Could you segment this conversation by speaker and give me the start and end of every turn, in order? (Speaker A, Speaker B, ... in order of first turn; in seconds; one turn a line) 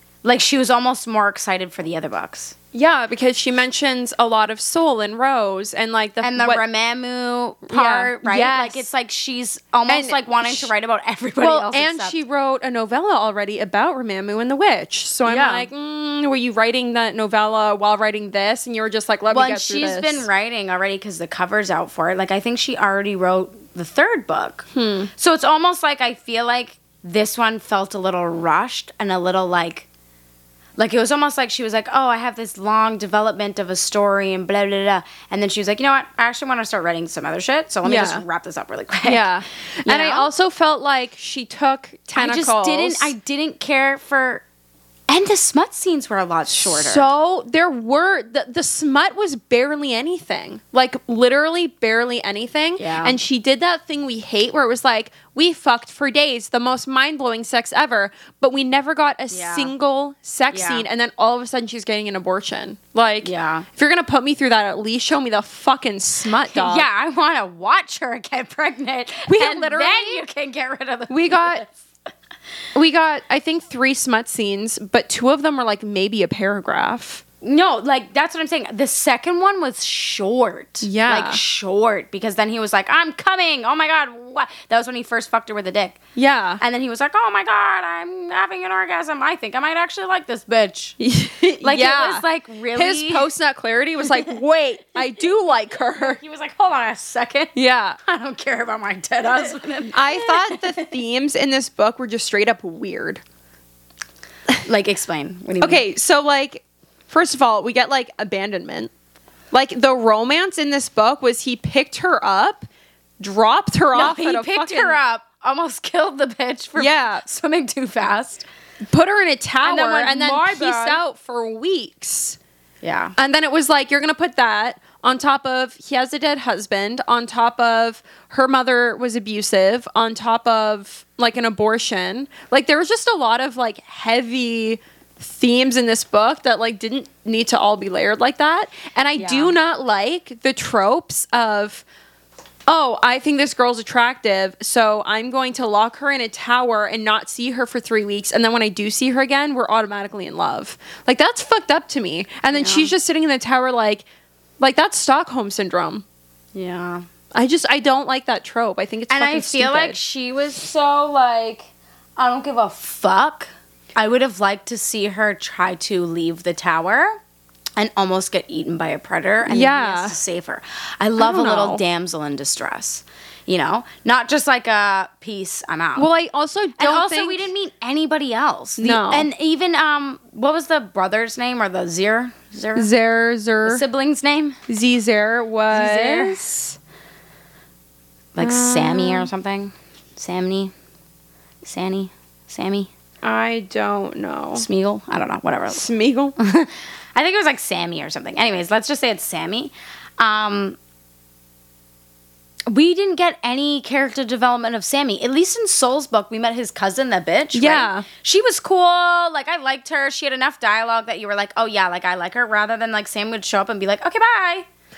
Speaker A: 0.2-2.5
Speaker B: 2.7-6.6
Speaker A: 6.2-12.2
Speaker B: 7.7-8.9
Speaker B: 9.9-10.7
Speaker B: 11.4-20.2
Speaker A: 15.2-15.7
Speaker A: 19.3-29.9
Speaker B: 24.7-25.1
Speaker A: 30.8-39.3
Speaker B: 37.8-38.2
Speaker B: 39.0-43.1
Speaker A: 39.8-40.3
Speaker A: 42.1-44.4
Speaker A: 45.1-47.0
Speaker B: 46.5-66.9
Speaker A: 52.8-53.2
Speaker A: 59.3-59.7
Speaker A: 60.5-60.9
Speaker A: 63.2-63.7
Speaker A: 66.5-71.7
Speaker B: 69.3-70.2
Speaker B: 71.1-71.6
Speaker B: 72.7-77.2
Speaker A: 77.4-86.0
Speaker B: 80.8-81.4
Speaker B: 86.2-86.6
Speaker A: 86.6-91.0
Speaker B: 91.0-96.2
Speaker A: 91.6-93.3
Speaker A: 95.8-100.9
Speaker B: 97.5-98.0
Speaker B: 99.9-103.2
Speaker A: 104.6-105.8
Speaker B: 105.6-108.9
Speaker B: 109.5-112.7
Speaker B: 113.2-115.0
Speaker A: 113.9-118.4
Speaker B: 116.8-117.2
Speaker B: 118.9-122.4
Speaker A: 119.6-121.0
Speaker A: 122.8-123.1
Speaker B: 123.2-141.8
Speaker A: 139.2-139.5
Speaker B: 142.7-154.0
Speaker A: 152.5-152.9
Speaker B: 154.6-156.0
Speaker A: 156.5-157.1
Speaker B: 157.3-160.0
Speaker A: 159.1-167.2
Speaker A: 167.8-176.1
Speaker B: 169.4-170.2
Speaker B: 171.2-171.8
Speaker B: 175.9-177.5
Speaker A: 176.8-182.9
Speaker B: 178.8-179.3
Speaker B: 182.8-183.8
Speaker A: 183.6-184.6
Speaker B: 184.7-186.8
Speaker A: 185.7-186.4
Speaker A: 188.3-190.7
Speaker B: 188.4-189.3
Speaker A: 191.6-192.9
Speaker B: 193.2-194.7
Speaker A: 194.5-195.8
Speaker B: 195.7-196.3
Speaker A: 196.4-200.8
Speaker A: 202.7-214.7
Speaker B: 207.5-208.1